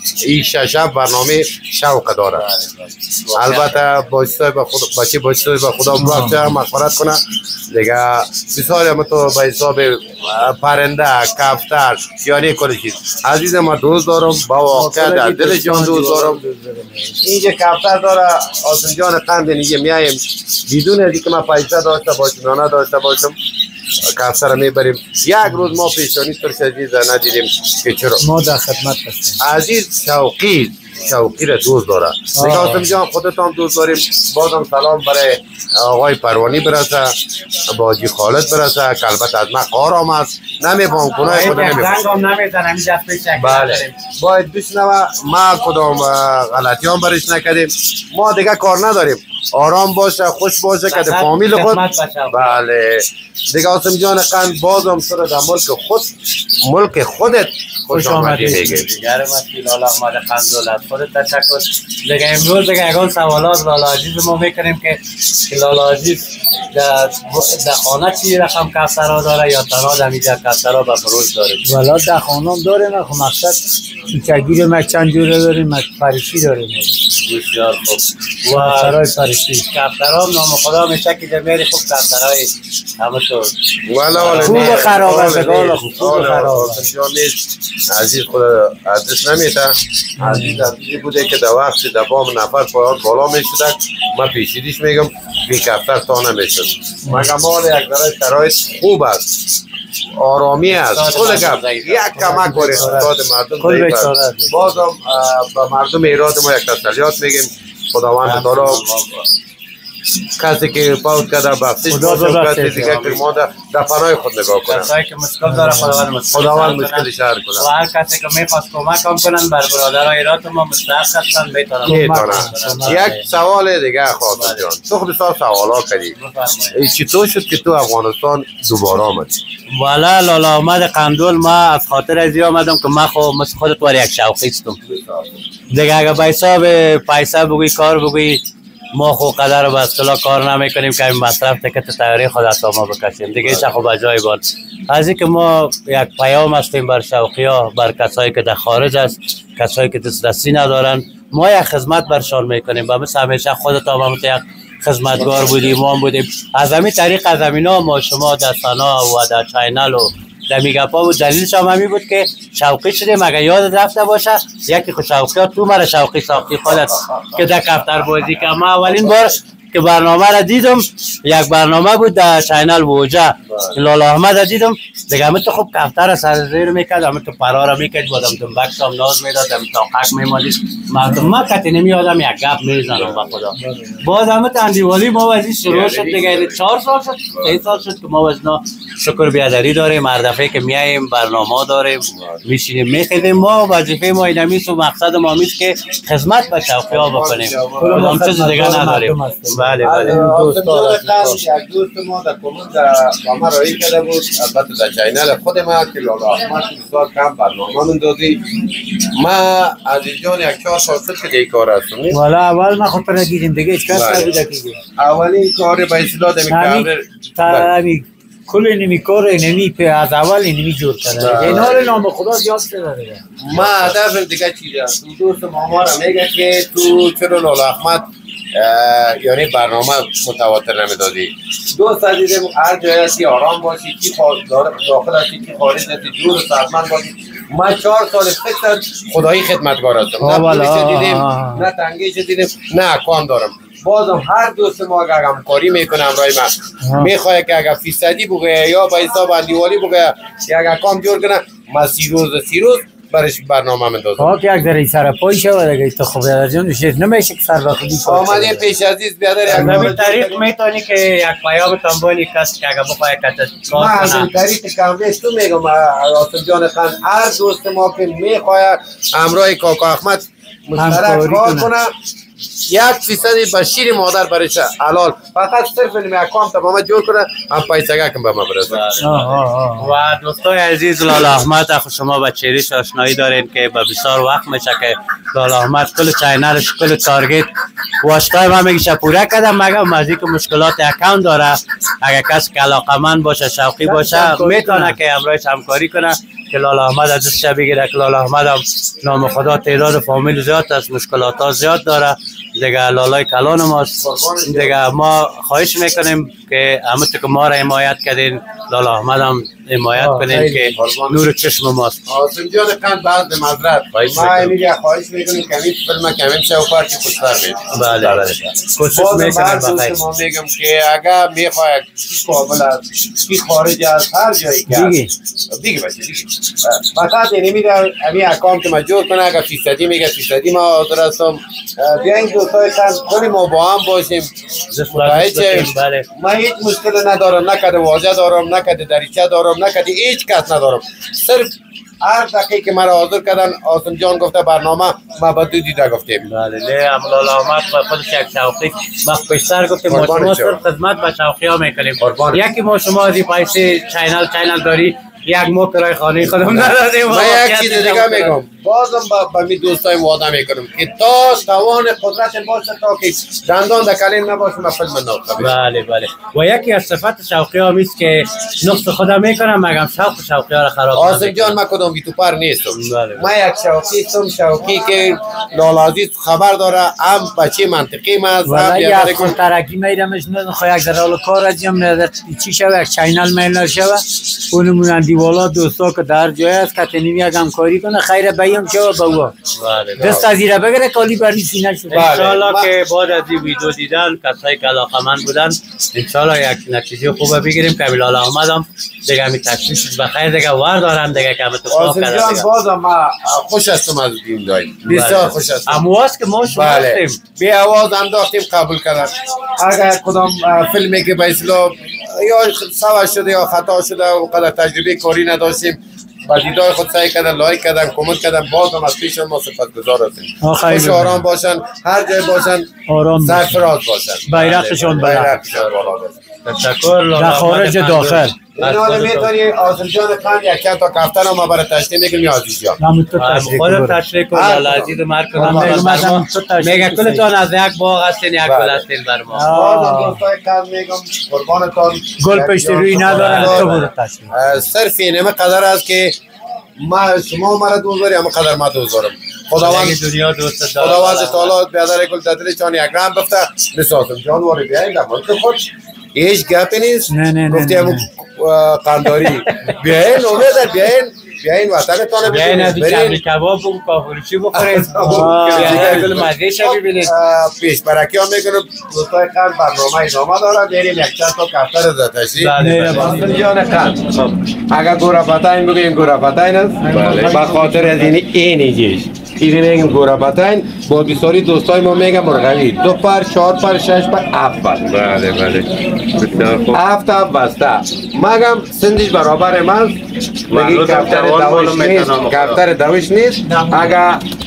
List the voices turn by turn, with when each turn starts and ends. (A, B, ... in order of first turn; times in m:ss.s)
0:00.2-0:02.5 A
0:02.4-0:03.8 B
0:03.4-0:16.4 A
0:06.0-0:06.6 C
0:14.7-0:17.2 C
0:17.2-0:23.4 A
0:24.1-0:28.2 A
0:28.2-0:29.4 C
0:29.4-0:37.2 A
0:32.4-0:32.9 C
0:37.7-0:42.0 A
0:41.2-0:44.0 B
0:43.4-0:56.1 A
0:50.9-0:52.6 B
0:56.6-0:58.9 A
0:57.9-1:11.7 B
1:11.6-1:17.0 C
1:17.2-1:19.0 B
1:18.5-1:19.6 C
1:19.7-1:23.5 B
1:23.9-1:39.4 A
1:24.1-1:25.1 B
1:24.4-1:26.9 C
1:30.2-1:30.7 C
1:40.2-1:48.8 A
1:40.7-1:42.2 B
1:42.2-1:44.8 C
1:42.7-1:43.0 B
1:48.2-1:49.2 B
1:50.4-1:54.9 A
1:51.9-1:52.9 C
1:52.8-1:53.2 B
1:54.7-2:03.3 B
1:55.4-1:56.1 C
1:56.3-1:57.7 A
2:01.8-2:03.0 C
2:01.9-2:06.2 A
2:04.3-2:04.7 B
2:06.2-2:06.8 B
2:06.7-2:09.4 A
2:09.7-2:14.8 B
2:14.8-2:15.4 A
2:15.7-2:18.4 B
2:19.0-3:20.2 B
2:23.4-2:23.8 A
2:48.8-2:49.2 A
2:53.5-2:53.8 A
3:02.9-3:03.4 A
3:05.7-3:06.7 A
3:07.3-3:07.6 A
3:12.1-3:12.4 A
3:16.9-3:18.2 A
3:17.8-3:21.4 C
3:19.8-3:32.2 A
3:32.1-3:34.8 C
3:33.9-3:34.3 A
3:35.0-3:37.7 A
3:36.5-3:43.8 C
3:41.2-3:42.0 A
3:43.4-4:14.3 A
4:00.2-4:01.7 C
4:06.8-4:07.1 C
4:14.2-4:18.7 C
4:18.0-4:20.4 A
4:19.5-4:24.3 B
4:19.5-4:20.0 C
4:23.7-4:31.9 A
4:30.8-4:31.7 C
4:32.7-4:38.8 A
4:38.7-4:47.5 B
4:39.0-4:39.9 C
4:48.0-5:12.0 B
4:53.8-4:55.0 C
5:04.0-5:04.8 A
5:10.0-5:10.8 C
5:10.8-5:11.3 A
5:12.1-5:25.0 A
5:13.9-5:14.5 B
5:17.7-5:20.0 B
5:24.7-5:25.1 C
5:25.6-5:34.3 A
5:34.7-5:36.1 B
5:34.9-5:41.5 A
5:42.0-5:46.2 A
5:46.2-5:58.4 B
5:49.9-5:50.6 A
5:52.0-5:52.4 A
5:56.3-6:05.6 A
6:05.4-6:11.6 B
6:10.9-6:19.4 A
6:12.8-6:13.3 B
6:18.4-6:29.3 C
6:29.6-6:30.3 B
6:30.0-6:32.1 C
6:31.9-6:42.5 B
6:31.9-6:32.7 A
6:41.7-6:45.8 A
6:44.9-6:47.2 B
6:46.5-7:02.7 A
7:00.4-7:01.2 C
7:02.9-7:03.6 C
7:03.2-7:04.3 A
7:04.3-7:05.4 C
7:04.3-7:05.9 B
7:04.9-7:06.2 A
7:06.4-7:09.3 B
7:07.1-7:08.4 C
7:08.6-7:12.8 A
7:12.8-7:14.0 C
7:13.2-7:19.5 B
7:14.3-7:14.9 A
7:15.4-7:17.2 C
7:18.4-7:18.8 A
7:19.3-7:20.2 C
7:19.5-7:23.7 A
7:22.2-7:24.5 C
7:23.0-7:23.9 B
7:24.3-7:26.2 A
7:26.8-7:30.0 A
7:29.6-7:31.6 B
7:30.8-7:43.2 A
7:37.1-7:38.1 C
7:42.2-7:47.1 B
7:44.5-7:54.0 A
7:45.1-7:46.1 C
7:52.4-7:53.3 B
7:52.6-7:53.4 C
7:54.1-7:54.4 B
7:54.7-8:04.9 A
7:56.9-7:58.0 C
8:04.9-8:06.8 B
8:06.7-8:10.0 A
8:10.5-8:12.6 B
8:10.5-8:14.2 A
8:13.5-8:13.8 C